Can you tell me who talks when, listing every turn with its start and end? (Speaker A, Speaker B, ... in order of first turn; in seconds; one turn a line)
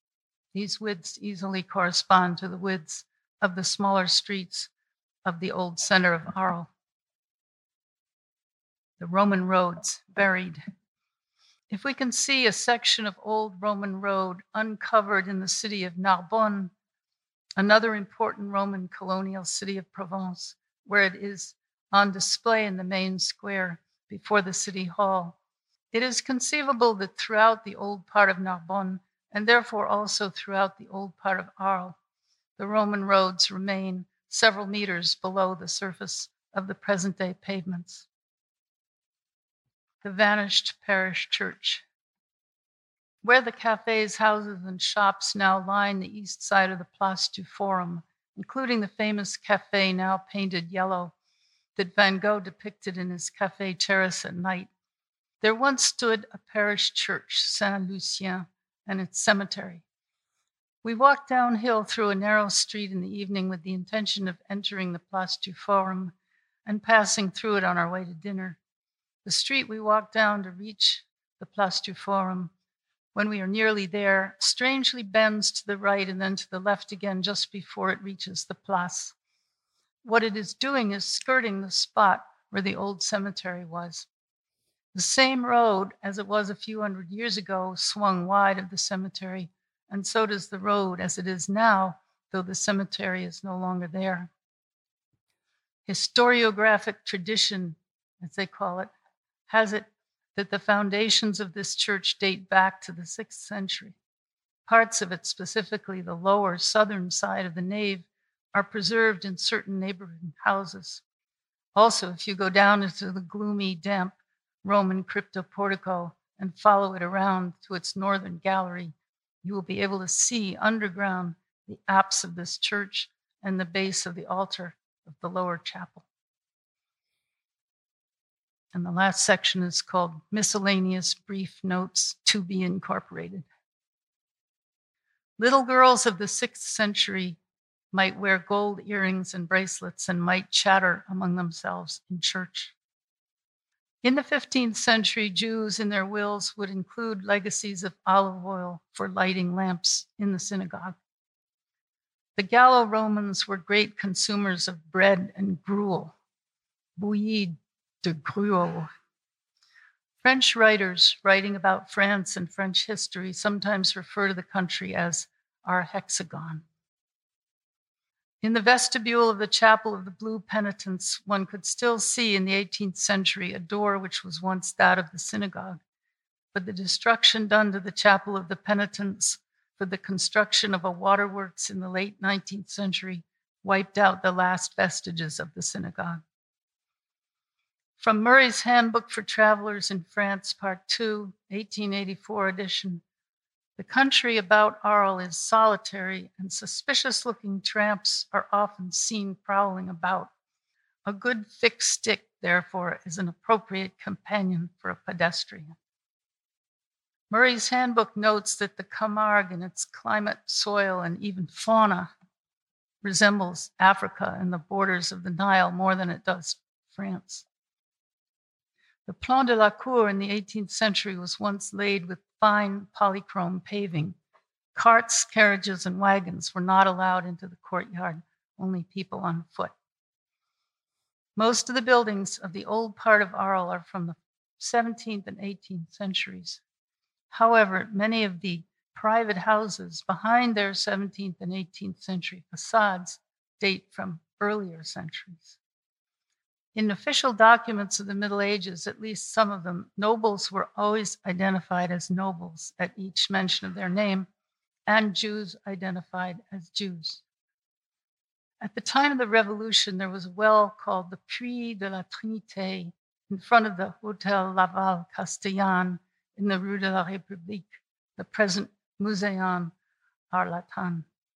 Speaker A: 0.5-4.7
Speaker A: 5.2-6.7
Speaker A: 9.0-10.6
Speaker A: 11.7-16.7
Speaker A: 17.6-25.4
Speaker A: 25.9-32.0
Speaker A: 32.6-38.1
Speaker A: 40.0-41.8
Speaker A: 43.2-51.1
Speaker A: 51.8-54.7
Speaker A: 55.4-59.8
Speaker A: 60.8-66.1
Speaker A: 66.7-68.6
Speaker A: 69.2-72.5
Speaker A: 73.2-79.1
Speaker A: 80.0-84.1
Speaker A: 84.9-94.3
Speaker A: 95.9-98.9
Speaker A: 99.5-104.0
Speaker A: 104.7-111.0
Speaker A: 111.8-126.0
Speaker A: 128.7-133.5
Speaker A: 135.4-137.4
Speaker A: 137.9-142.7
Speaker A: 144.0-151.0
Speaker A: 152.4-156.1
Speaker A: 157.0-158.9
Speaker A: 160.2-166.6
Speaker A: 168.4-175.8
Speaker A: 176.5-186.2
Speaker A: 188.0-193.0
Speaker A: 193.8-200.3
Speaker A: 201.1-205.7
Speaker A: 207.3-212.1
Speaker A: 213.0-217.4
Speaker A: 219.1-224.2
Speaker A: 224.7-229.7
Speaker A: 231.4-236.6
Speaker A: 237.3-245.6
Speaker A: 246.8-254.3
Speaker A: 254.9-257.2
Speaker A: 258.6-269.7
Speaker A: 270.3-271.1